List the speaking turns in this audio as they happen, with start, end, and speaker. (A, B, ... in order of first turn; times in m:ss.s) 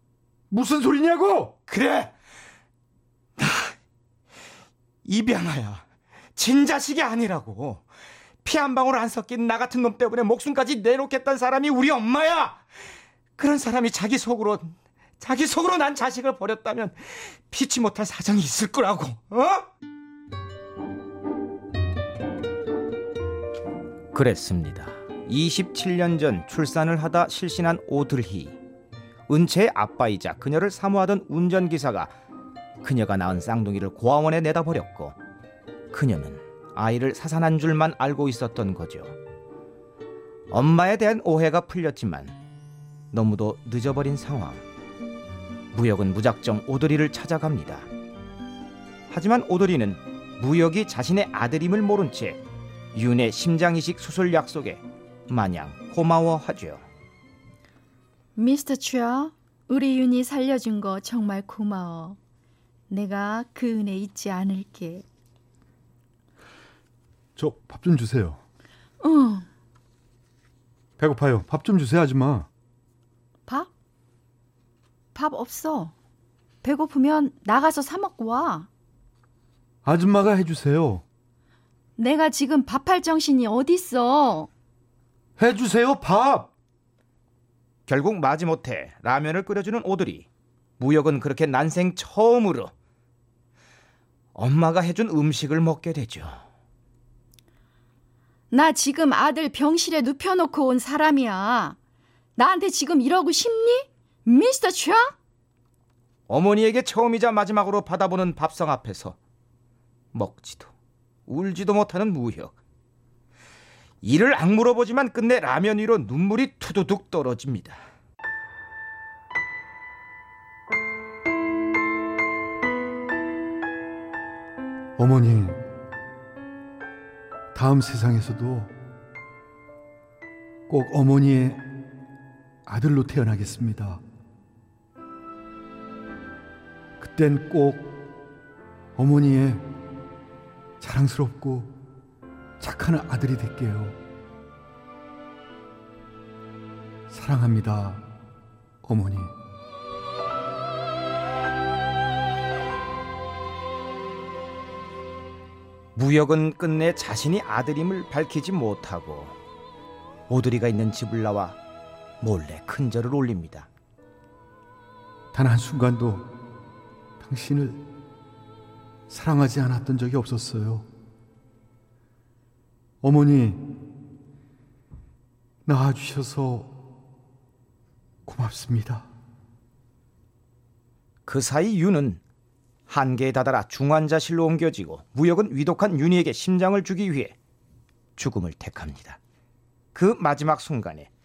0:00.5-0:01.6 A
0:01.7-0:02.1 B
0:03.4-0:03.7 B
0:05.0-0:05.8 B
0:06.4-0:07.8 B
0:08.4-0:12.6 B
0:13.4-0:19.7 B
0:24.1-0:28.6 B
0:29.3-0:32.1 B
0:32.8-0:35.2 B
0:35.9-0:39.2 B
0:40.5-0:42.4 B
0:43.1-0:44.6 B
0:45.7-0:47.9 B
0:49.1-0:52.4 B
0:53.0-0:56.8 B
0:58.4-1:02.2 C
1:02.9-1:05.1 C
1:07.4-1:08.4 A
1:09.0-1:09.5 C
1:11.0-1:12.5 A
1:15.1-1:15.9 C
1:16.6-1:18.7 C
1:19.8-1:21.0 A
1:22.0-1:24.5 C
1:25.4-1:26.5 A
1:27.9-1:30.3 B
1:30.8-1:32.7 B
1:34.4-1:36.4 B
1:38.5-1:41.8 C
1:42.4-1:45.1 C
1:46.3-1:49.2 B
1:50.1-1:50.7 B
1:51.3-1:52.5 B
1:54.0-1:57.8 B
2:05.0-2:05.6 A
2:07.5-2:08.7 A
2:10.7-2:11.6 A
2:12.7-2:14.0 A
2:17.0-2:18.0 A
2:19.0-2:19.6 A
2:20.8-2:21.7 A
2:22.6-2:24.0 A
2:27.1-2:28.0 A
2:28.8-2:29.3 A
2:36.0-2:39.4 B
2:40.3-2:41.6 B
2:42.2-2:43.7 B
2:45.3-2:46.3 A
2:47.2-2:47.8 A
2:49.1-2:50.9 A
2:53.0-2:53.8 A
2:55.7-2:56.7 A
2:58.3-2:59.1 A
3:01.3-3:02.2 B
3:02.9-3:07.3 B
3:08.2-3:09.2 B
3:09.9-3:11.1 B